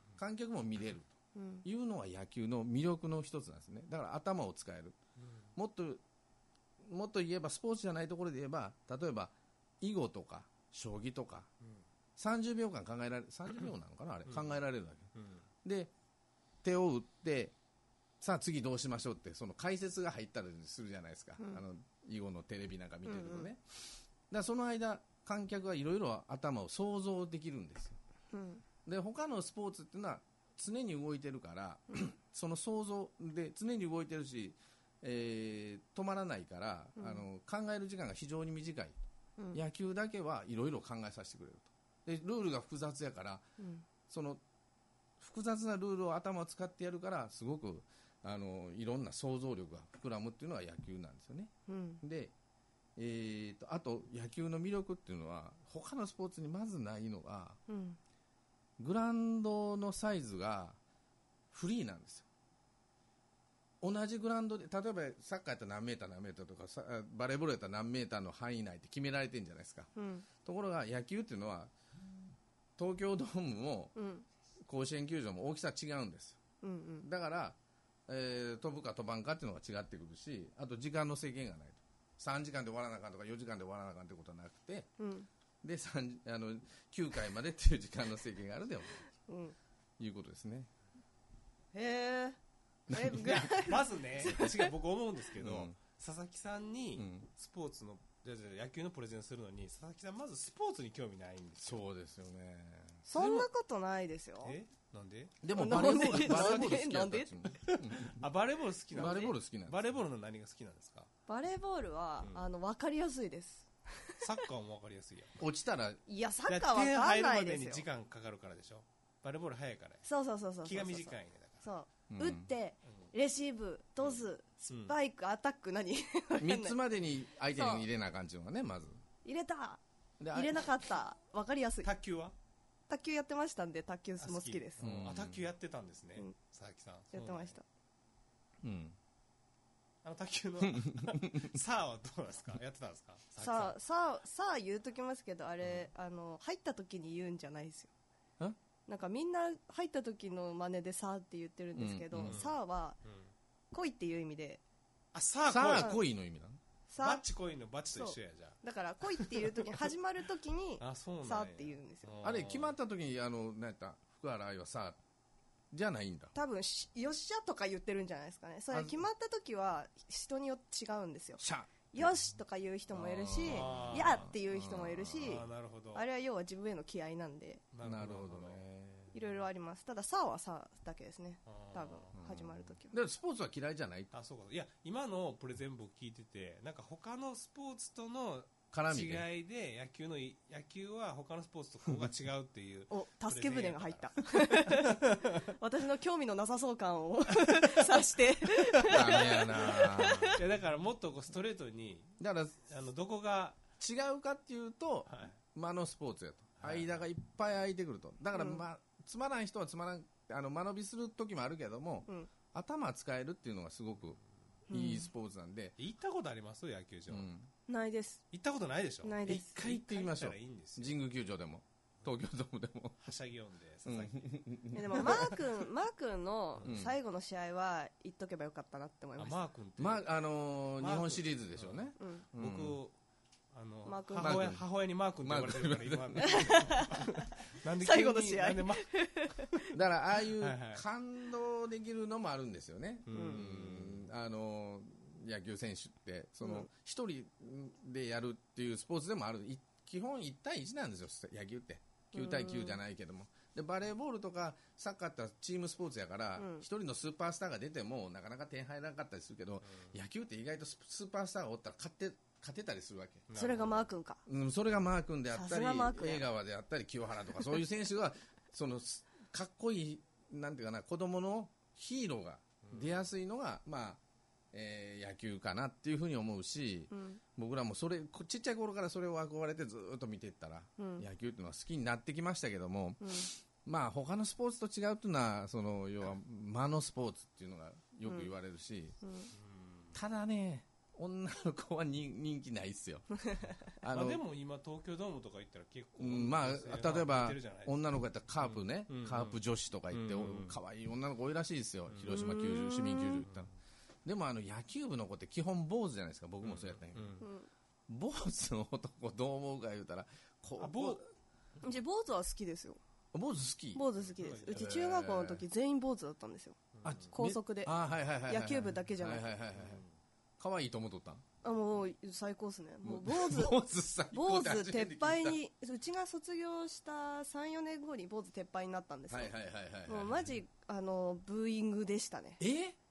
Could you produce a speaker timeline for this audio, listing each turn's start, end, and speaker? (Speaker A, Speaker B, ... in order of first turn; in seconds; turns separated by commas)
Speaker A: 0.2-5.0, Speaker B: 1.3-1.6, Speaker A: 5.5-6.0, Speaker A: 6.8-11.5, Speaker A: 12.2-15.1, Speaker C: 14.3-14.6, Speaker C: 15.1-15.4, Speaker A: 15.6-15.9, Speaker A: 16.6-17.5, Speaker A: 18.2-28.0, Speaker B: 23.1-23.5, Speaker B: 28.3-28.6, Speaker A: 28.8-39.0, Speaker B: 37.0-37.2, Speaker A: 39.5-43.4, Speaker B: 43.6-43.9, Speaker A: 44.1-44.4, Speaker A: 45.2-52.3, Speaker B: 51.7-52.0, Speaker A: 53.0-57.6, Speaker B: 57.7-58.0, Speaker A: 58.8-60.8, Speaker A: 61.5-62.2, Speaker A: 63.8-69.9, Speaker B: 70.0-70.3, Speaker A: 70.4-71.7, Speaker A: 72.8-74.0, Speaker B: 73.9-74.2, Speaker A: 74.7-76.4, Speaker B: 76.6-77.1, Speaker A: 77.0-77.6, Speaker A: 78.1-84.9, Speaker B: 85.0-85.3, Speaker A: 85.6-89.0, Speaker B: 89.3-89.5, Speaker A: 90.0-90.7, Speaker B: 91.7-92.4, Speaker A: 92.9-93.4, Speaker B: 92.9-94.7, Speaker C: 93.2-101.8, Speaker A: 95.4-95.8, Speaker A: 96.9-97.3, Speaker A: 101.6-103.0, Speaker B: 103.0-104.6, Speaker C: 103.1-103.5, Speaker C: 104.4-106.7, Speaker A: 105.4-108.2, Speaker B: 105.5-107.3, Speaker C: 107.6-111.1, Speaker A: 108.9-109.9, Speaker B: 111.3-114.2, Speaker C: 112.2-112.5, Speaker C: 114.2-115.3, Speaker A: 115.4-116.0, Speaker B: 116.1-117.8, Speaker C: 116.5-120.0, Speaker B: 120.0-126.8, Speaker C: 120.6-121.7, Speaker A: 122.1-122.5, Speaker C: 124.7-124.9, Speaker A: 126.4-129.0, Speaker B: 127.5-127.9, Speaker B: 129.2-129.8, Speaker A: 130.2-130.7, Speaker B: 130.3-131.9, Speaker C: 131.8-132.3, Speaker B: 132.9-134.8, Speaker C: 134.2-137.6, Speaker A: 134.8-135.5, Speaker B: 137.1-137.6, Speaker A: 138.6-138.9, Speaker C: 140.0-143.8, Speaker A: 140.7-141.5, Speaker B: 143.4-147.9, Speaker C: 145.6-145.9, Speaker B: 148.9-153.0, Speaker A: 151.7-152.4, Speaker C: 152.2-152.5, Speaker B: 153.7-154.6, Speaker C: 155.1-155.9, Speaker A: 155.5-156.6, Speaker B: 155.8-156.0, Speaker B: 156.9-157.2, Speaker C: 157.0-158.6, Speaker B: 157.9-162.1, Speaker C: 159.1-159.6, Speaker C: 160.8-162.8, Speaker A: 162.2-165.0, Speaker A: 165.7-166.3, Speaker B: 166.3-177.6, Speaker A: 168.7-169.1, Speaker A: 171.4-172.2, Speaker A: 172.9-175.4, Speaker C: 173.5-174.3, Speaker C: 175.2-176.0, Speaker C: 177.7-178.6, Speaker A: 177.8-179.3, Speaker B: 179.1-182.9, Speaker C: 181.4-182.1, Speaker A: 182.1-184.1, Speaker C: 184.1-195.4, Speaker A: 188.7-189.3, Speaker B: 192.9-200.4, Speaker A: 198.8-200.4, Speaker C: 198.9-202.1, Speaker A: 202.2-202.7, Speaker C: 202.7-203.6, Speaker A: 203.8-214.2, Speaker C: 205.1-205.4, Speaker C: 206.6-207.0, Speaker B: 208.3-208.6, Speaker B: 214.7-215.1, Speaker A: 214.7-215.8, Speaker C: 215.8-217.3, Speaker A: 217.1-217.5, Speaker B: 217.7-218.2, Speaker C: 218.3-221.0, Speaker B: 219.0-219.5, Speaker A: 219.2-223.0, Speaker C: 223.0-224.4, Speaker A: 223.8-225.4, Speaker B: 224.7-229.4, Speaker A: 226.6-226.9, Speaker C: 229.2-230.1, Speaker A: 229.8-232.8, Speaker C: 230.8-232.9, Speaker B: 232.0-232.2, Speaker C: 233.5-238.9, Speaker B: 233.8-234.6, Speaker A: 234.2-234.6, Speaker A: 235.2-236.8, Speaker B: 236.2-237.0, Speaker B: 237.8-239.6, Speaker A: 239.7-263.3, Speaker C: 240.4-240.8, Speaker C: 243.1-244.1, Speaker B: 243.1-243.4, Speaker B: 246.4-246.7, Speaker B: 252.1-252.8, Speaker B: 256.4-256.6, Speaker C: 263.3-263.8, Speaker B: 263.3-264.2, Speaker A: 264.2-274.0, Speaker B: 265.3-266.3, Speaker C: 272.6-273.0, Speaker A: 274.5-289.0, Speaker B: 276.9-277.2, Speaker B: 280.8-281.0, Speaker B: 283.0-283.3, Speaker B: 288.1-288.3, Speaker B: 289.0-289.3, Speaker C: 289.3-290.0, Speaker A: 289.9-294.2, Speaker C: 293.9-300.6, Speaker A: 296.0-303.5, Speaker B: 302.1-303.2, Speaker A: 304.0-307.2, Speaker C: 306.4-307.2, Speaker B: 307.2-307.5, Speaker A: 307.9-311.1, Speaker C: 310.6-311.0, Speaker B: 311.6-312.8, Speaker A: 313.1-313.9, Speaker B: 313.7-316.6, Speaker C: 314.1-314.8, Speaker A: 314.5-315.4, Speaker C: 316.8-317.1, Speaker A: 316.8-319.8, Speaker B: 317.1-317.7, Speaker B: 318.3-319.3, Speaker C: 319.6-319.9, Speaker A: 320.4-321.2, Speaker B: 321.4-323.6, Speaker A: 322.8-325.4, Speaker B: 324.1-329.3, Speaker A: 329.1-330.3, Speaker B: 329.9-332.4, Speaker A: 332.4-332.8